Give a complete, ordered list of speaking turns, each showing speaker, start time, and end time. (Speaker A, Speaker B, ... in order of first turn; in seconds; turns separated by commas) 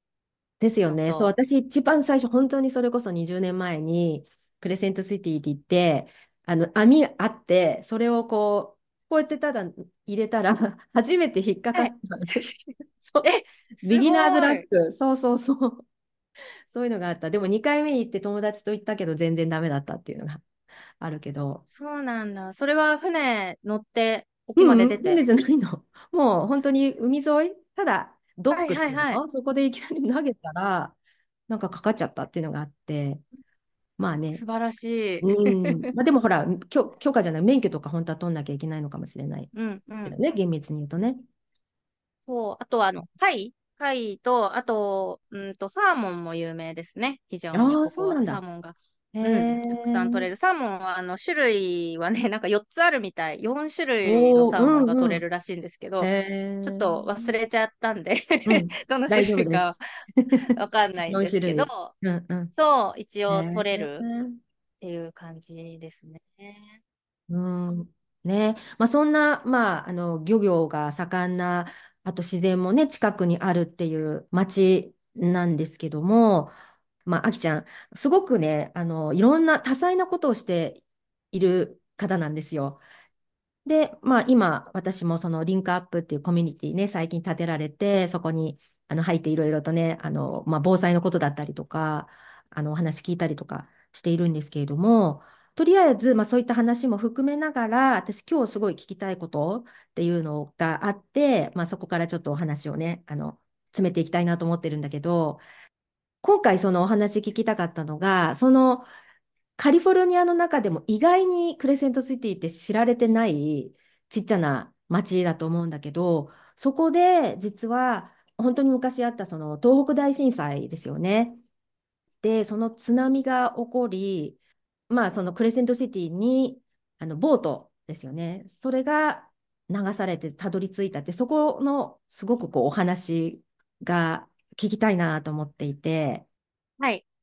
Speaker A: 0.6-12.3, Speaker B: 0.8-1.3, Speaker B: 11.7-12.7, Speaker A: 13.0-15.8, Speaker B: 13.2-14.6, Speaker A: 16.7-20.4, Speaker A: 21.0-21.6, Speaker B: 21.7-25.2, Speaker A: 24.6-30.9, Speaker B: 28.5-29.2, Speaker A: 31.5-33.2, Speaker A: 34.0-34.4, Speaker B: 34.3-35.9, Speaker A: 35.2-39.5, Speaker B: 39.5-40.2, Speaker A: 40.0-41.2, Speaker B: 42.3-56.1, Speaker A: 47.5-48.4, Speaker A: 49.1-50.3, Speaker A: 54.0-55.2, Speaker A: 56.0-57.0, Speaker B: 56.6-59.8, Speaker A: 58.5-60.5, Speaker B: 60.5-61.9, Speaker A: 61.1-62.5, Speaker B: 62.5-64.0, Speaker A: 63.3-64.4, Speaker B: 64.8-66.8, Speaker A: 67.3-76.5, Speaker A: 77.0-82.8, Speaker A: 83.7-105.4, Speaker A: 106.2-108.9, Speaker A: 109.6-121.4, Speaker A: 122.2-124.4, Speaker A: 124.9-136.2